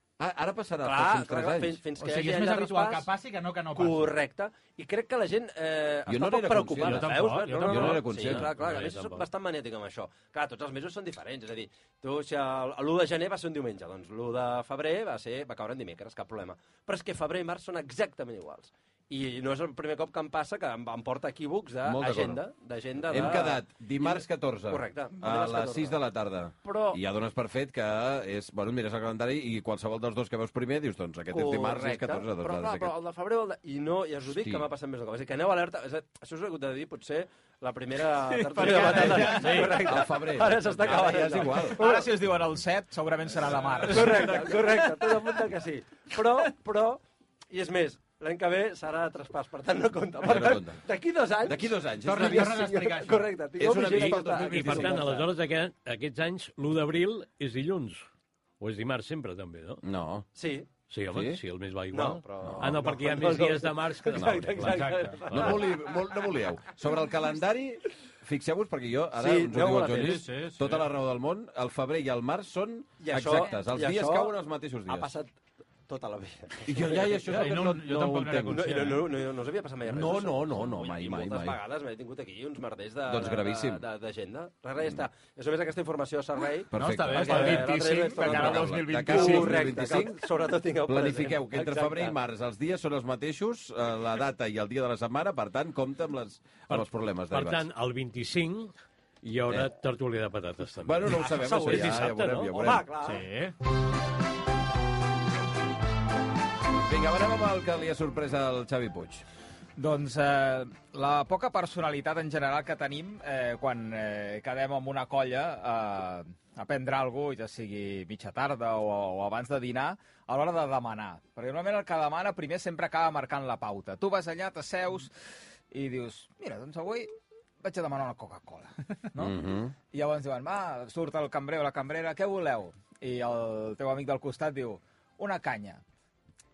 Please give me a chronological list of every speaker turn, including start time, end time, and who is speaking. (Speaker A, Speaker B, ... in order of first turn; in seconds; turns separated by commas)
Speaker A: 0.2-1.8, Speaker B: 0.8-3.1, Speaker C: 2.0-4.2, Speaker B: 3.7-26.0, Speaker A: 6.1-8.5, Speaker C: 6.8-8.1, Speaker D: 8.1-9.3, Speaker A: 21.9-22.4, Speaker A: 23.1-32.9, Speaker B: 26.6-27.0, Speaker B: 31.3-42.1, Speaker A: 34.3-34.7, Speaker E: 38.3-39.7, Speaker C: 38.6-39.8, Speaker A: 38.8-41.9, Speaker E: 41.8-45.2, Speaker B: 43.9-55.3, Speaker A: 50.2-50.8, Speaker A: 51.5-52.6, Speaker C: 52.0-53.3, Speaker A: 53.6-55.1, Speaker D: 53.9-58.1, Speaker D: 58.6-59.8, Speaker A: 59.8-60.3, Speaker B: 60.4-60.7, Speaker D: 60.9-65.5, Speaker A: 61.1-61.4, Speaker B: 61.9-66.1, Speaker A: 62.4-62.9, Speaker A: 64.2-64.6, Speaker C: 64.6-65.4, Speaker A: 65.3-75.1, Speaker B: 69.2-70.2, Speaker C: 69.9-70.9, Speaker B: 73.0-74.3, Speaker B: 74.9-75.3, Speaker B: 75.9-77.8, Speaker A: 76.7-78.6, Speaker C: 77.2-79.1, Speaker B: 78.5-92.2, Speaker A: 79.9-81.6, Speaker A: 83.1-83.8, Speaker A: 86.7-90.2, Speaker C: 86.7-89.7, Speaker A: 90.9-97.7, Speaker D: 96.7-98.7, Speaker D: 99.2-102.7, Speaker A: 100.8-102.9, Speaker B: 101.2-103.2, Speaker C: 103.0-103.5, Speaker A: 106.8-109.2, Speaker E: 109.8-125.1, Speaker E: 125.7-127.1, Speaker E: 127.6-135.8, Speaker A: 129.2-129.7